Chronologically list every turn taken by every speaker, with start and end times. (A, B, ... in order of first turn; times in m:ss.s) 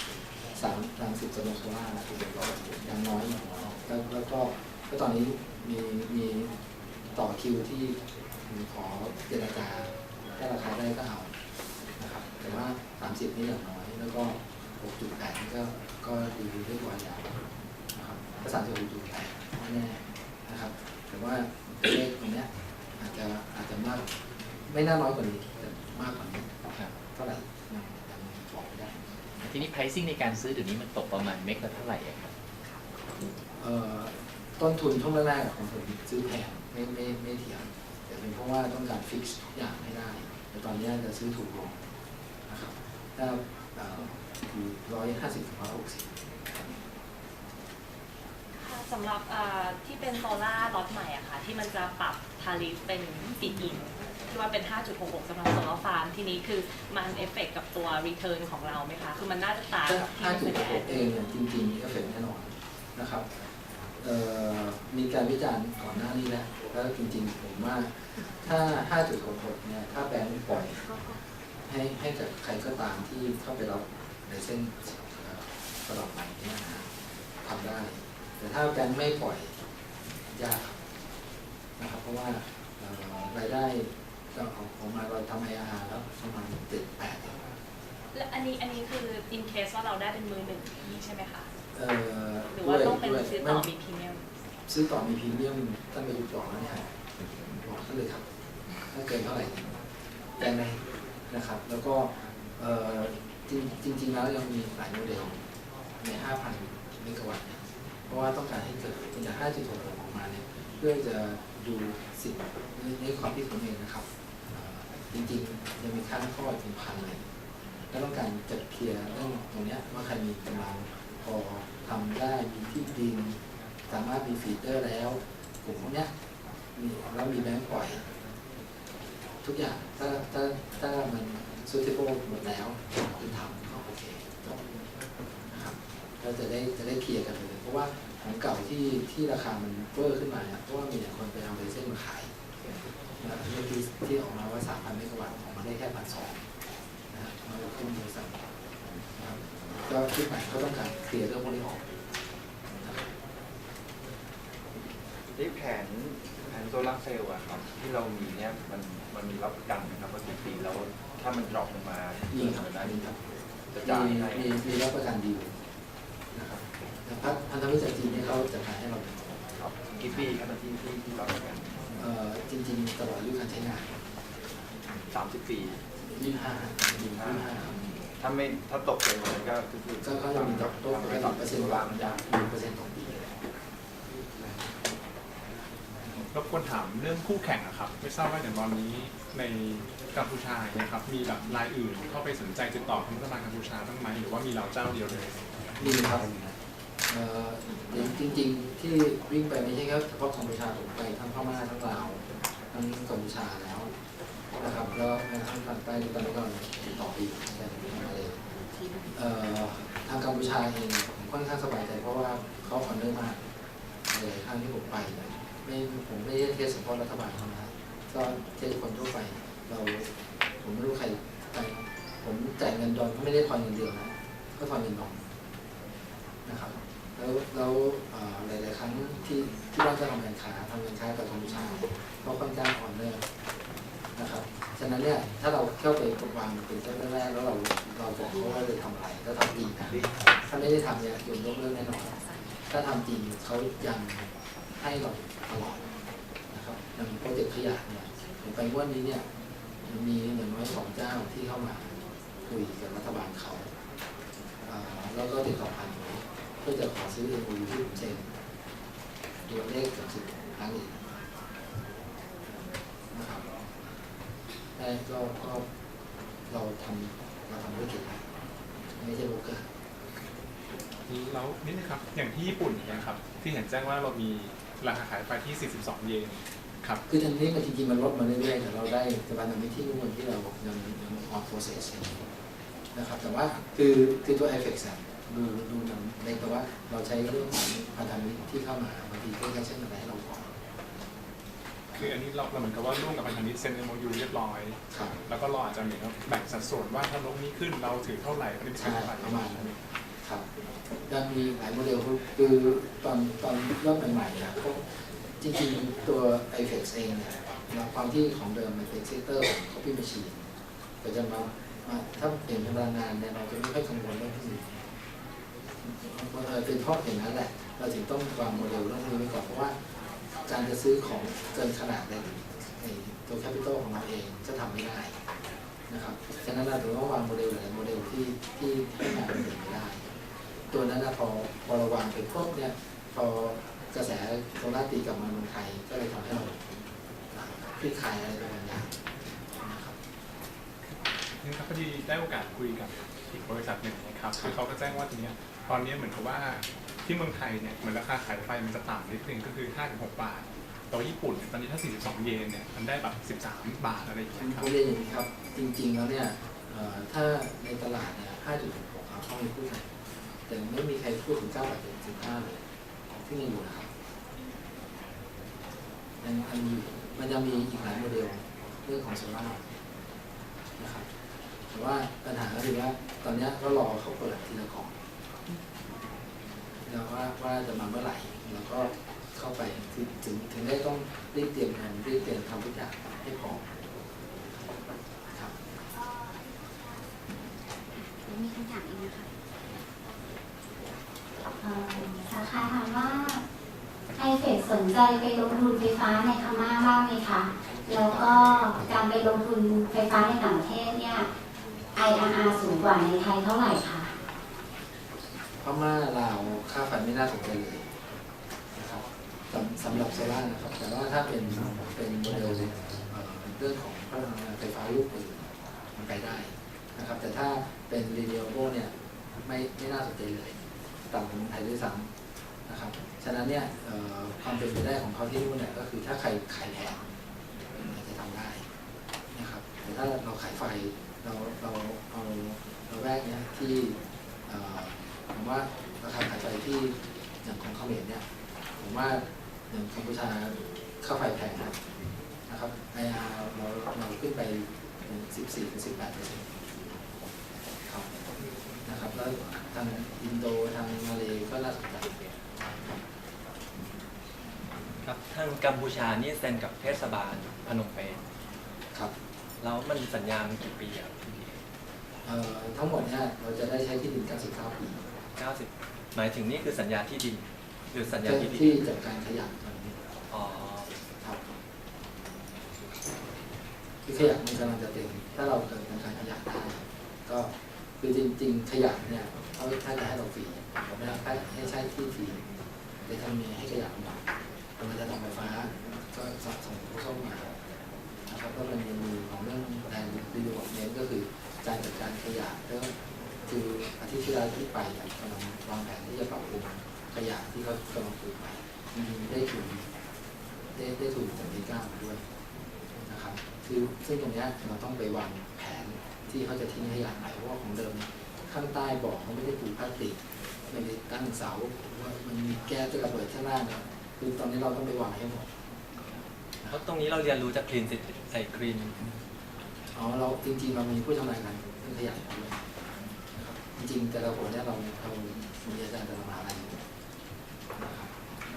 0:00.5-0:06.5 A
0:07.1-0:11.3 A
0:12.0-0:17.3 A
0:17.9-0:24.0 A
0:24.7-0:29.0 A
0:29.4-0:32.3 B
0:33.6-0:41.8 A
0:42.5-0:46.1 A
0:48.6-1:01.1 C
0:59.8-1:03.3 A
1:04.0-1:10.8 A
1:11.7-1:16.9 A
1:17.4-1:19.5 A
1:20.3-1:20.8 A
1:21.8-1:27.4 A
1:28.1-1:31.5 C
1:31.7-1:33.7 A
1:32.5-1:34.2 C
1:34.7-1:36.9 A
1:37.6-1:38.2 A
1:38.9-1:39.7 A
1:40.4-1:45.4 A
1:46.0-1:57.2 A
1:57.9-2:03.4 A
2:03.9-2:06.1 A
2:06.7-2:08.0 A
2:09.4-2:14.6 A
2:15.5-2:22.3 A
2:23.2-2:26.4 A
2:27.1-2:28.4 A
2:29.1-2:31.8 A
2:35.3-2:43.0 D
2:42.3-2:43.2 A
2:43.7-2:44.5 D
2:43.8-2:45.6 A
2:46.3-2:49.3 A
2:49.6-2:52.0 D
2:52.0-2:54.0 A
2:55.1-2:55.8 D
2:56.1-2:57.8 A
2:57.1-2:57.5 D
2:58.2-3:02.2 D
3:00.0-3:03.3 A
3:06.3-3:15.3 E
3:15.8-3:16.1 D
3:15.8-3:16.4 A
3:17.1-3:23.9 A
3:24.6-3:28.4 A
3:29.1-3:33.4 A
3:34.1-3:40.1 A
3:40.6-3:45.2 A
3:46.4-3:53.2 A
3:54.2-4:02.2 A
3:59.6-4:00.1 D
4:02.7-4:05.8 A
4:06.5-4:09.2 A
4:09.8-4:11.9 A
4:12.4-4:13.7 A
4:14.6-4:18.3 A
4:19.5-4:21.0 A
4:22.5-4:23.5 A
4:24.8-4:25.6 A
4:26.5-4:28.2 A
4:29.0-4:29.6 A
4:31.1-4:37.0 E
4:37.1-4:42.3 A
4:42.9-4:50.5 A
4:51.9-4:59.7 E
4:58.7-5:00.4 A
5:01.1-5:10.5 A
5:11.0-5:14.8 A
5:15.8-5:19.8 A
5:20.4-5:25.2 A
5:25.9-5:30.0 A
5:30.7-5:36.6 A
5:37.3-5:38.9 A
5:39.6-5:40.0 A
5:41.4-5:54.7 E
5:54.5-5:59.8 A
6:00.5-6:02.6 A
6:03.1-6:03.9 A
6:06.2-6:09.6 A
6:10.8-6:11.1 A
6:11.7-6:14.9 A
6:16.8-6:23.6 A
6:28.0-6:29.3 F
6:31.6-6:33.4 F
6:34.2-6:41.3 F
6:37.8-6:38.3 A
6:42.0-6:44.1 F
6:45.6-6:47.8 A
6:48.7-7:00.6 A
7:01.1-7:02.1 A
7:02.6-7:07.0 A
7:07.8-7:08.6 A
7:09.3-7:18.2 A
7:18.8-7:21.7 A
7:22.5-7:27.0 A
7:27.8-7:28.3 A
7:28.8-7:32.1 A
7:35.0-7:38.2 G
7:39.6-7:41.6 G
7:42.2-7:45.0 A
7:45.4-7:48.8 G
7:48.2-7:50.0 A
7:50.3-7:50.9 G
7:51.2-7:51.4 A
7:54.0-8:02.4 A
8:03.0-8:04.2 A
8:04.8-8:07.5 A
8:08.3-8:12.9 A
8:13.5-8:19.8 A
8:20.7-8:22.2 A
8:23.0-8:30.2 A
8:30.7-8:35.5 A
8:36.7-8:39.0 G
8:39.9-8:42.6 A
8:43.3-8:46.8 A
8:47.8-8:48.1 A